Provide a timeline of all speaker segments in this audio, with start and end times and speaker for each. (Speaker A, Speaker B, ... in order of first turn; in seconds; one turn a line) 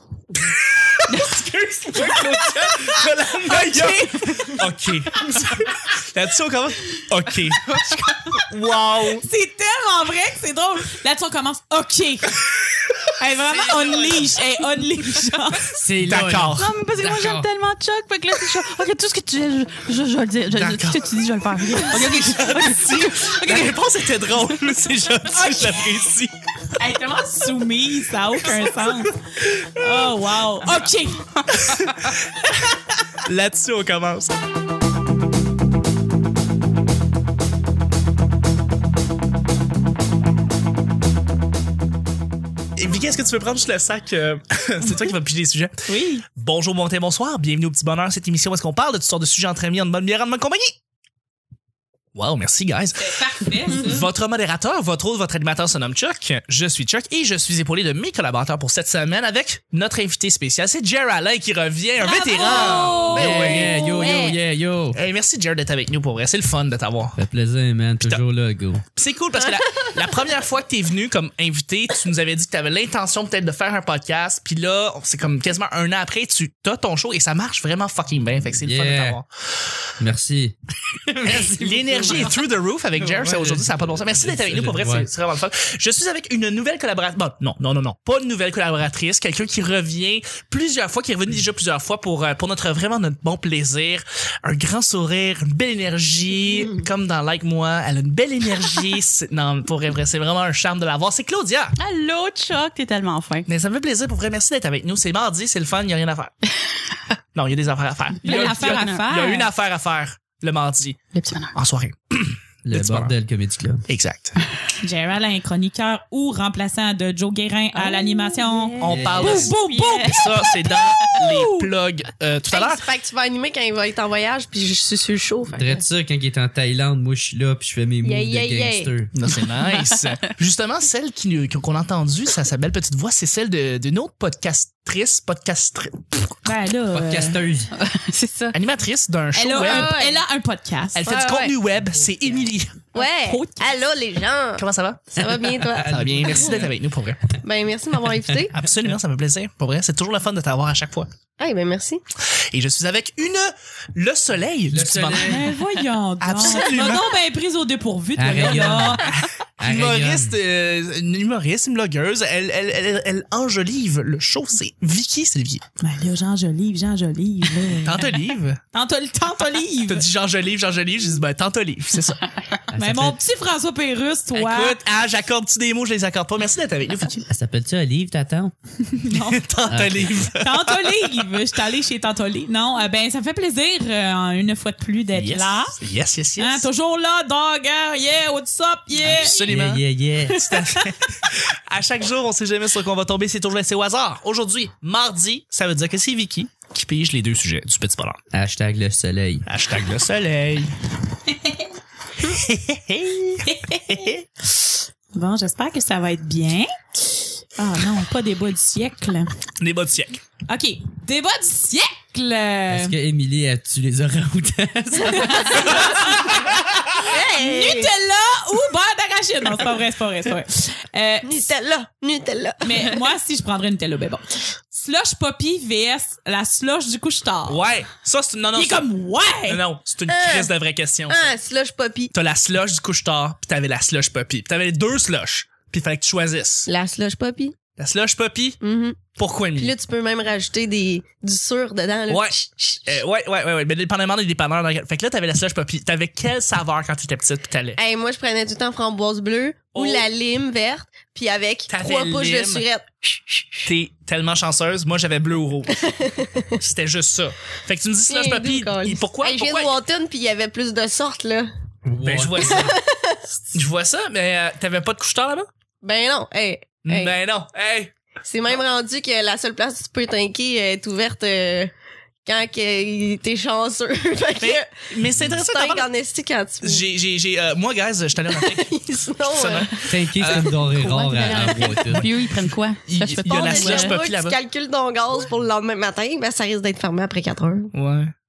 Speaker A: 0.3-5.4
Speaker B: 1.1-2.5
Speaker C: 3.5-4.5
Speaker B: 4.0-4.6
Speaker A: 5.9-9.2
Speaker C: 9.1-12.4
Speaker C: 13.2-15.7
Speaker A: 13.4-14.3
Speaker D: 15.7-17.4
Speaker A: 16.0-16.7
Speaker B: 16.5-23.8
Speaker A: 20.5-21.1
Speaker A: 21.8-26.4
Speaker C: 25.3-25.9
Speaker C: 26.8-31.4
Speaker A: 28.5-30.1
Speaker A: 31.5-34.3
Speaker A: 42.8-50.7
Speaker C: 45.9-46.2
Speaker A: 52.1-64.2
Speaker C: 53.0-54.1
Speaker E: 62.0-64.4
Speaker C: 62.3-63.5
Speaker B: 62.6-63.0
Speaker D: 63.1-65.0
Speaker A: 64.9-67.2
Speaker D: 67.1-68.8
Speaker A: 68.9-79.3
Speaker D: 78.6-79.2
Speaker D: 80.0-80.5
Speaker D: 81.1-82.4
Speaker A: 81.3-101.7
Speaker D: 83.0-85.1
Speaker B: 101.8-103.5
Speaker A: 103.5-106.3
Speaker A: 107.3-111.0
Speaker B: 108.2-109.0
Speaker C: 108.2-109.5
Speaker B: 111.1-111.5
Speaker A: 111.5-113.1
Speaker D: 112.6-113.8
Speaker A: 113.9-114.4
Speaker C: 114.8-121.7
Speaker B: 117.7-120.2
Speaker A: 118.8-122.8
Speaker D: 118.8-119.5
Speaker E: 122.5-125.8
Speaker D: 125.5-129.1
Speaker E: 128.0-128.9
Speaker A: 129.1-136.3
Speaker C: 136.4-137.4
Speaker D: 136.9-137.7
Speaker B: 137.8-138.5
Speaker A: 138.5-139.9
Speaker C: 139.3-141.1
Speaker E: 139.6-140.2
Speaker A: 140.9-142.8
Speaker E: 141.1-141.5
Speaker D: 141.9-142.5
Speaker E: 142.9-146.7
Speaker C: 142.9-143.7
Speaker A: 144.6-145.1
Speaker D: 145.2-146.6
Speaker A: 145.9-147.2
Speaker E: 147.4-148.5
Speaker A: 148.5-151.1
Speaker E: 151.4-152.0
Speaker A: 152.3-155.5
Speaker D: 154.7-155.5
Speaker C: 155.2-159.2
Speaker A: 156.2-157.1
Speaker D: 158.2-160.3
Speaker A: 158.5-165.6
Speaker C: 165.8-168.2
Speaker A: 167.8-168.6
Speaker C: 168.7-170.1
Speaker A: 169.9-172.2
Speaker D: 172.7-173.2
Speaker C: 172.7-174.8
Speaker A: 174.3-177.2
Speaker D: 177.2-178.5
Speaker C: 178.9-179.4
Speaker A: 179.1-180.9
Speaker D: 179.7-180.2
Speaker C: 180.3-185.8
Speaker A: 185.1-186.7
Speaker C: 186.4-189.4
Speaker D: 189.0-190.4
Speaker A: 189.0-189.8
Speaker C: 190.3-190.9
Speaker A: 190.3-198.2
Speaker D: 198.3-199.4
Speaker A: 199.4-200.7
Speaker A: 202.2-204.2
Speaker C: 203.4-204.2
Speaker C: 205.1-206.7
Speaker C: 207.6-209.3
Speaker A: 209.6-210.2
Speaker C: 210.5-212.9
Speaker D: 212.7-215.8
Speaker C: 215.1-221.4
Speaker E: 217.0-217.9
Speaker E: 221.2-223.0
Speaker C: 222.6-227.6
Speaker A: 227.5-228.8
Speaker C: 228.5-229.6
Speaker A: 229.5-231.2
Speaker E: 230.1-230.5
Speaker E: 231.1-232.1
Speaker A: 232.1-236.7
Speaker E: 236.7-237.5
Speaker A: 237.8-238.6
Speaker E: 238.6-239.0
Speaker A: 239.1-239.7
Speaker E: 239.6-243.0
Speaker A: 242.1-242.3
Speaker A: 242.8-247.8
Speaker E: 247.8-253.7
Speaker A: 249.7-250.1
Speaker A: 251.7-252.6
Speaker A: 253.7-255.9
Speaker E: 255.7-256.6
Speaker A: 256.6-259.7
Speaker E: 258.1-261.5
Speaker D: 261.8-262.8
Speaker A: 262.0-262.7
Speaker E: 262.4-263.2
Speaker A: 263.5-265.5
Speaker E: 265.8-267.1
Speaker A: 266.8-267.9
Speaker E: 268.2-271.7
Speaker E: 272.2-274.7
Speaker A: 274.4-275.9
Speaker E: 275.2-276.9
Speaker A: 276.6-278.7
Speaker E: 278.3-279.9
Speaker A: 279.2-284.4
Speaker D: 279.9-282.1
Speaker B: 280.8-284.0
Speaker E: 283.3-287.7
Speaker A: 287.7-288.1